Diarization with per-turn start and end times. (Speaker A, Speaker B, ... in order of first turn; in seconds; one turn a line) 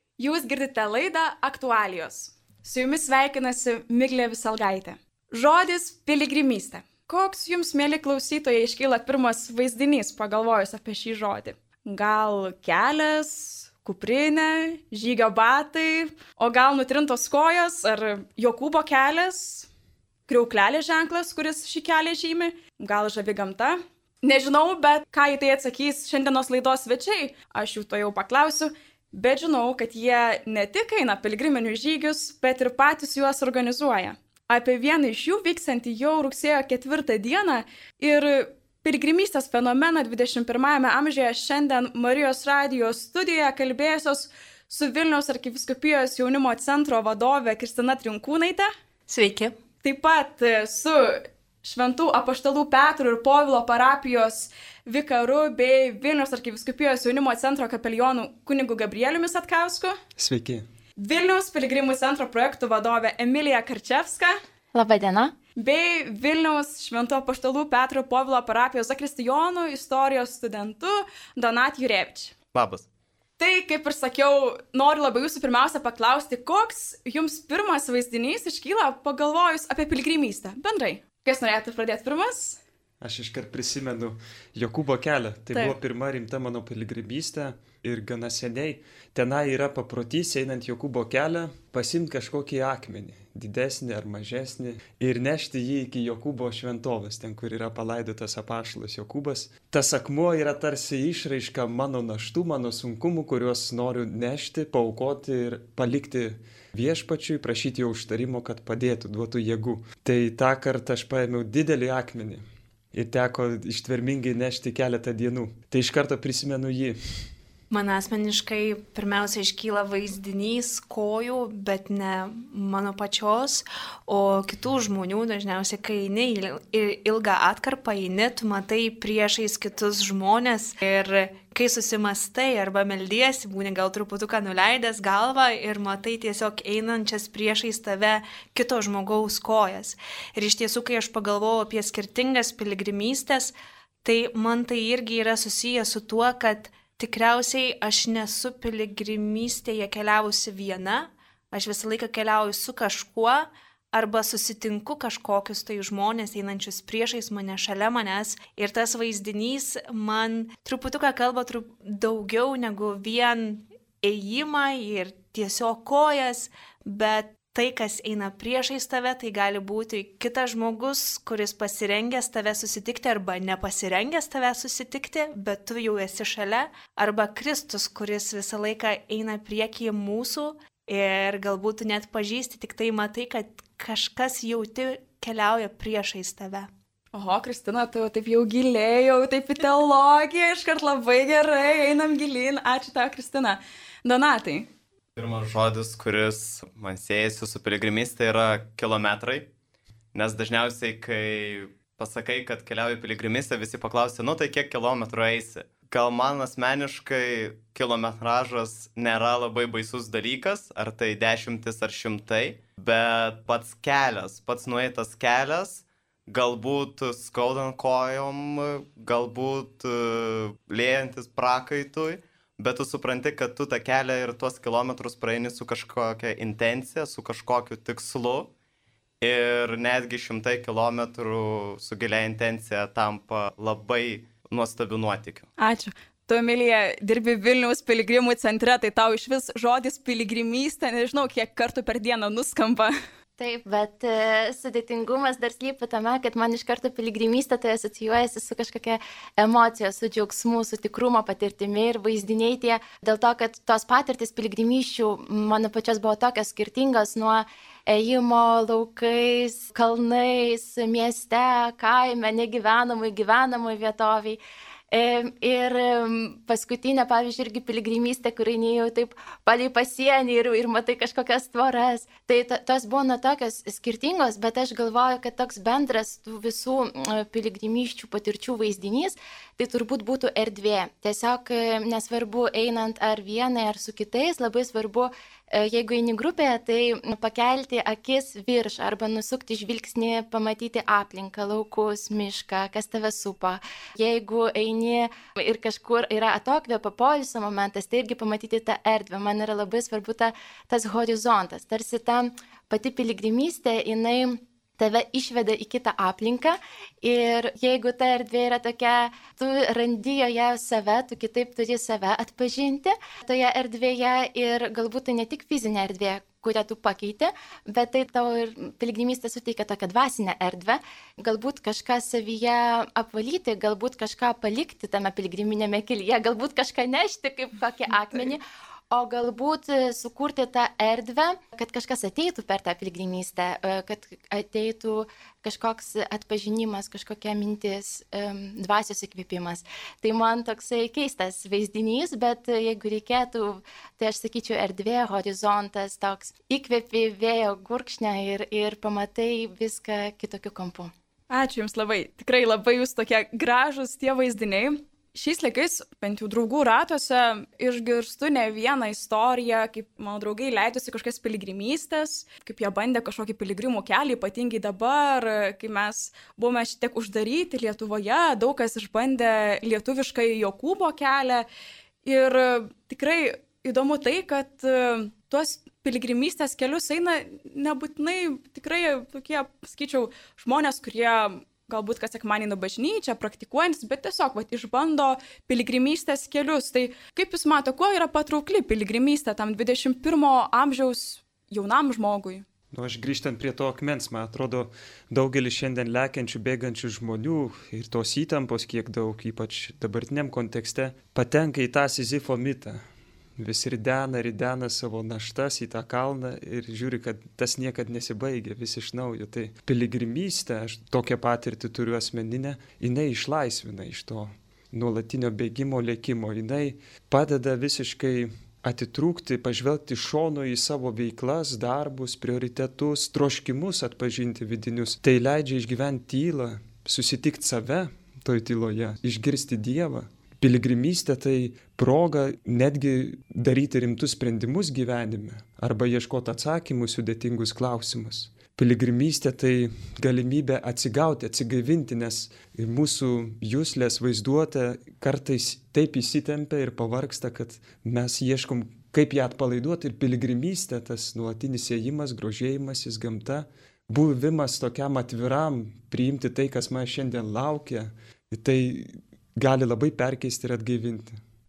Speaker A: 0.2-19.7
Speaker A: 20.3-48.7
Speaker B: 49.1-49.5
Speaker A: 49.8-60.0
Speaker C: 60.2-60.7
Speaker A: 61.0-64.4
Speaker D: 64.7-65.3
Speaker A: 65.5-72.3
Speaker E: 72.5-72.8
Speaker A: 73.4-82.6
Speaker C: 83.0-112.4
Speaker C: 112.9-117.0
Speaker B: 117.7-186.7
Speaker A: 187.1-194.7
Speaker E: 195.2-199.5
Speaker E: 200.1-228.5
Speaker E: 229.2-235.5
Speaker A: 235.6-242.9
Speaker D: 243.4-264.4
Speaker D: 264.9-350.9
Speaker A: 351.3-371.4
Speaker A: 372.0-392.4
Speaker C: 392.7-402.8
Speaker C: 403.4-461.2